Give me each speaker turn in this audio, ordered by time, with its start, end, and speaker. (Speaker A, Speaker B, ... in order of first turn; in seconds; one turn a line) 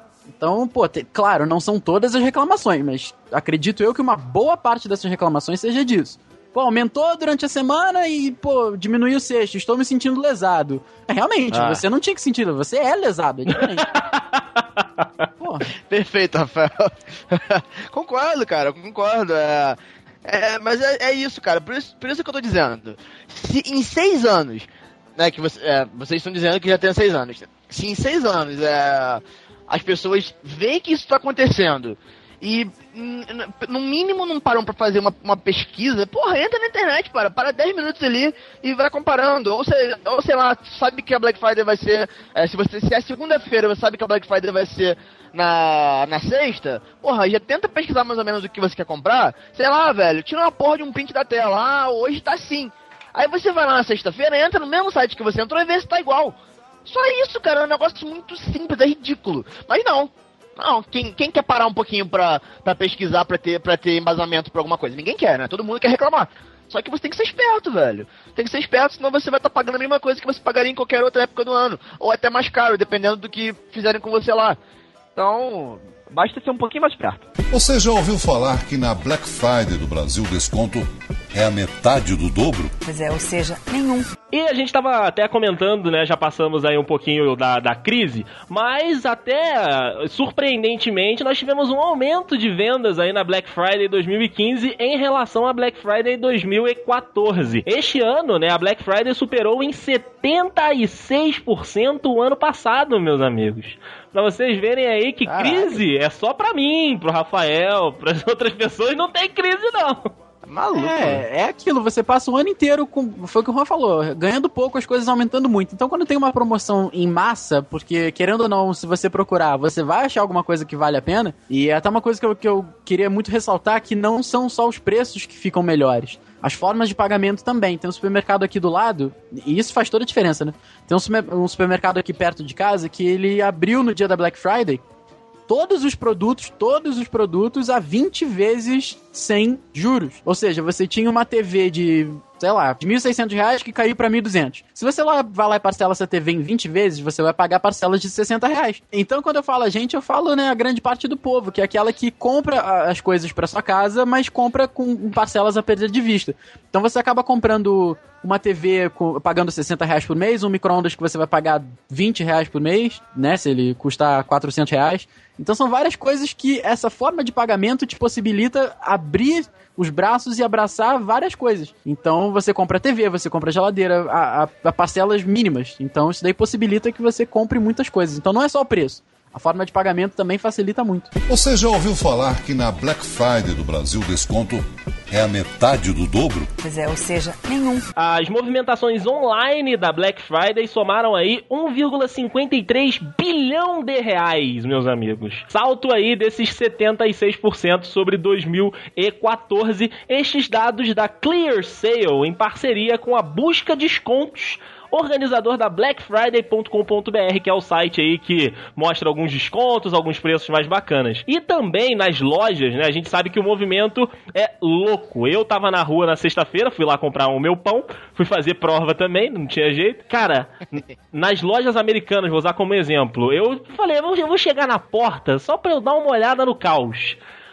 Speaker A: 0.4-13.9
Speaker B: 11.5-11.8
Speaker C: 13.5-15.2
Speaker A: 15.4-15.7
Speaker B: 15.9-56.3
Speaker B: 56.9-74.6
Speaker B: 75.2-77.2
Speaker D: 77.5-82.7
Speaker E: 82.8-84.1
Speaker C: 84.3-110.1
Speaker B: 105.2-105.8
Speaker B: 110.5-111.2
Speaker A: 110.7-134.8
Speaker A: 135.5-181.1
Speaker D: 181.3-186.5
Speaker E: 186.6-187.8
Speaker C: 188.0-227.2